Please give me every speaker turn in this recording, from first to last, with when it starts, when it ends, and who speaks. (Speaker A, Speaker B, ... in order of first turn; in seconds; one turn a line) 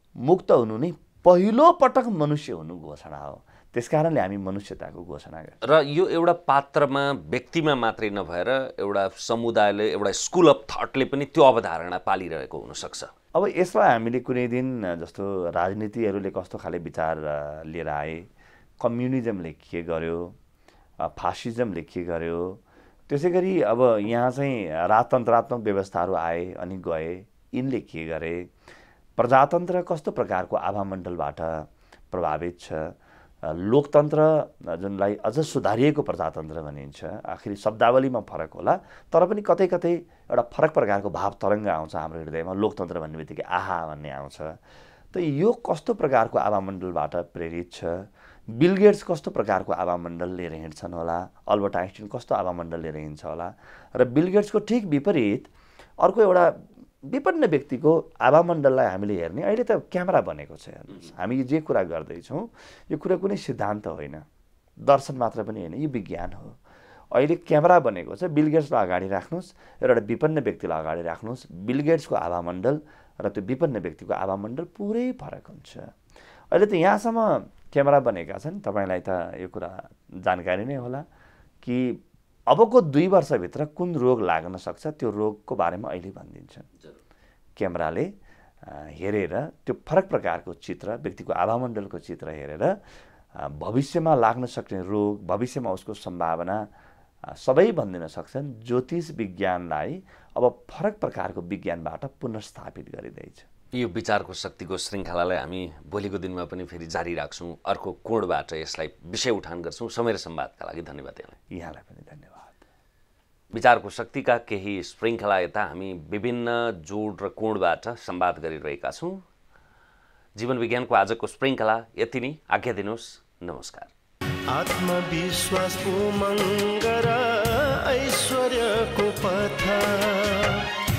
Speaker A: 0.2-5.6
Speaker B: 5.6-13.1
Speaker A: 13.3-20.4
Speaker A: 21.0-28.5
Speaker A: 29.2-44.5
Speaker A: 45.1-64.2
Speaker A: 64.8-66.6
Speaker A: 67.1-75.9
Speaker A: 76.5-81.0
Speaker A: 81.6-86.7
Speaker A: 87.6-88.1
Speaker A: 88.6-92.7
Speaker A: 93.4-96.6
Speaker A: 97.3-103.5
Speaker B: 103.7-111.4
Speaker A: 111.5-112.5
Speaker B: 113.5-119.2
Speaker B: 120.3-123.9
Speaker C: 124.5-130.7